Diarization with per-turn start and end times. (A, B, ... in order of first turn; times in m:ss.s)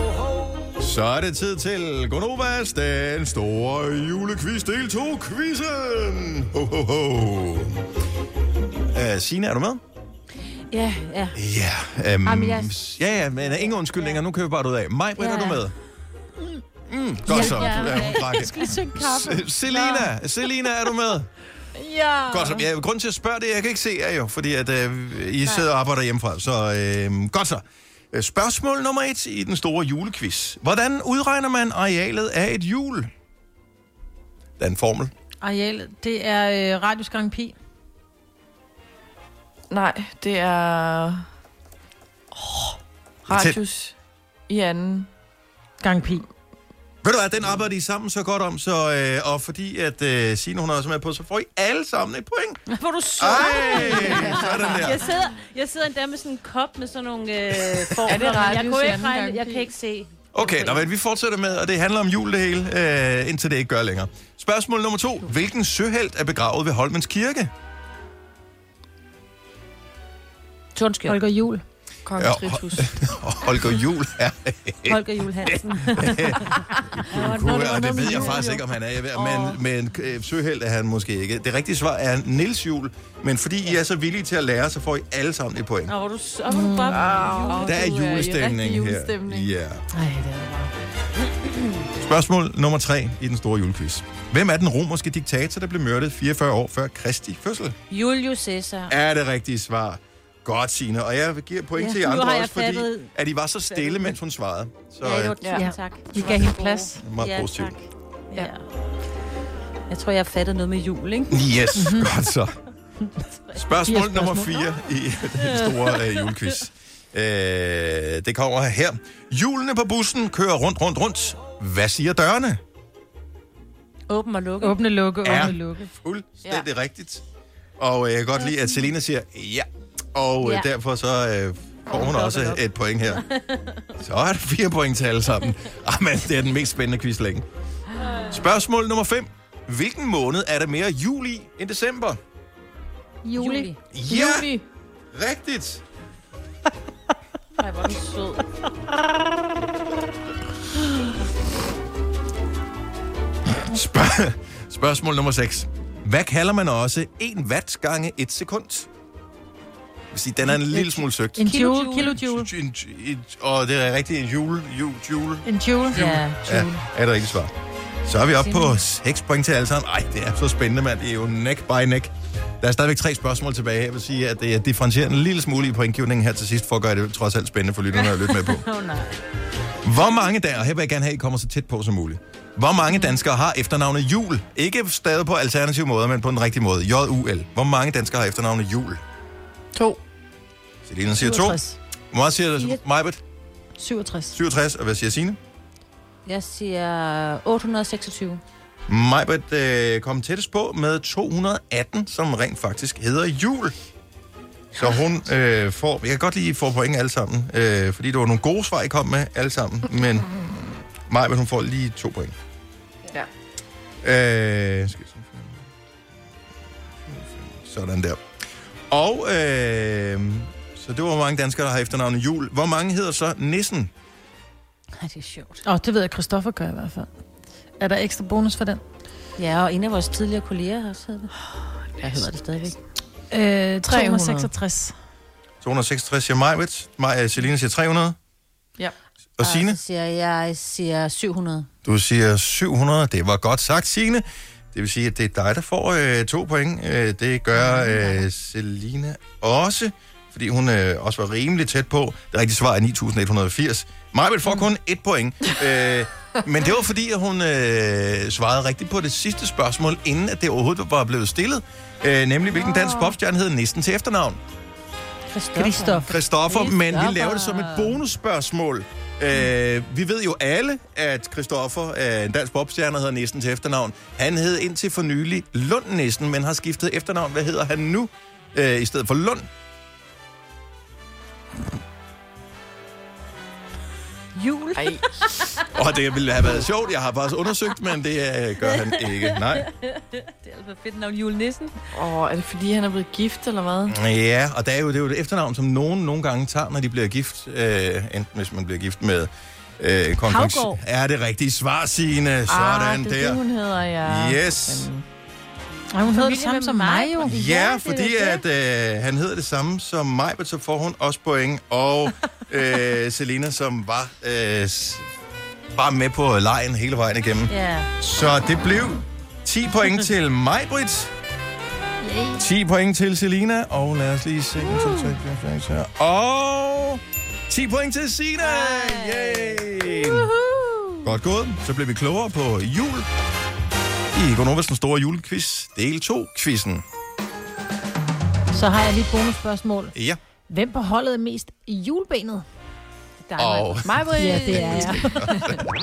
0:00.8-0:07.8 A
0:08.9-0:09.8 A
0:10.7-0:11.4 B
0:11.3-0:15.7 A
0:12.2-0:14.2 B
0:15.2-0:15.6 B
0:16.9-0:21.3 A
0:17.3-0:20.1 B
0:17.3-0:19.4 C
0:22.3-0:33.1 A
0:34.6-0:35.1 A
0:35.4-0:37.5 C
0:39.7-0:41.3 D
0:42.3-0:43.9 D
0:43.3-0:43.6 A
0:44.5-0:45.1 D
0:45.8-0:46.2 C
0:47.0-0:52.6 A
0:52.7-1:00.9 B
0:53.2-0:55.1 A
0:54.2-0:54.6 D
0:58.0-0:59.7 D
1:00.3-1:07.5 A
1:10.7-1:11.2 B
1:11.1-1:11.6 C
1:12.0-1:12.9 D
1:12.2-1:25.9 A
1:14.9-1:18.7 B
1:19.1-1:19.6 D
1:25.9-1:27.8 B
1:26.5-1:29.5 D
1:27.6-1:29.8 A
1:30.0-1:30.4 C
1:30.4-1:30.7 B
1:31.9-1:37.7 A
1:37.9-1:38.9 B
1:38.9-1:45.4 A
1:41.7-1:43.1 B
1:43.7-1:44.1 B
1:45.0-1:47.8 B
1:45.4-1:46.9 D
1:45.6-1:47.0 C
1:47.0-1:47.8 A
1:48.3-1:48.6 B
1:49.9-1:51.5 B
1:51.3-1:52.5 A
1:51.8-1:52.1 C
1:53.5-2:02.6 A
1:53.8-1:54.6 C
1:55.4-1:56.5 B
2:04.1-2:04.8 B
2:04.6-2:05.8 C
2:05.2-2:07.2 A
2:07.8-2:13.3 A
2:10.4-2:10.7 B
2:11.9-2:12.6 B
2:14.0-2:17.4 A
2:18.2-2:22.2 A
2:23.2-2:23.7 C
2:23.3-2:23.7 B
2:23.9-2:24.5 A
2:24.1-2:24.6 D
2:25.1-2:25.8 A
2:27.6-2:28.4 B
2:33.5-2:38.9 A
2:40.1-2:41.4 A
2:40.6-2:42.5 C
2:41.4-2:42.1 B
2:42.1-2:47.5 A
2:45.4-2:46.7 C
2:45.9-2:46.4 B
2:48.0-2:58.6 A
2:48.3-2:48.8 B
2:57.9-2:59.2 B
2:59.8-3:09.0 A
3:09.7-3:10.0 D
3:10.8-3:11.6 A
3:11.2-3:11.8 C
3:12.1-3:13.2 A
3:13.8-3:14.4 C
3:14.3-3:15.4 A
3:16.2-3:18.4 B
3:18.9-3:23.7 A
3:24.7-3:32.3 A
3:34.0-3:35.6 A
3:37.1-3:38.2 A
3:38.9-3:43.9 A
3:45.0-3:45.6 B
3:45.6-3:47.1 C
3:47.8-3:48.8 C
3:49.4-3:52.8 B
3:53.3-3:54.9 C
3:53.8-3:54.5 D
3:55.6-3:58.1 A
3:59.4-3:59.8 A
3:59.4-4:01.7 B
4:01.8-4:24.4 A
4:07.5-4:08.2 B
4:22.7-4:23.1 D
4:25.3-4:28.0 B
4:25.6-4:26.1 C
4:26.0-4:39.5 A
4:44.3-4:45.6 B
4:44.7-4:45.2 D
4:45.7-4:49.7 A
4:48.6-4:51.8 B
4:51.9-4:54.0 D
4:53.9-5:03.4 A
5:00.2-5:00.8 B
5:02.5-5:05.0 D
5:04.0-5:04.9 A
5:05.9-5:07.3 C
5:06.0-5:07.3 B
5:07.2-5:15.1 A
5:07.3-5:08.2 D
5:15.7-5:21.1 A
5:17.5-5:17.9 B
5:22.0-5:22.4 C
5:22.4-5:30.3 A
5:28.4-5:29.7 B
5:31.0-5:33.1 A
5:34.1-5:36.8 A
5:38.5-5:39.9 C
5:39.9-5:40.2 A
5:40.5-5:42.4 C
5:43.3-5:45.4 C
5:43.4-5:44.0 A
5:43.8-5:45.6 D
5:44.7-5:45.5 A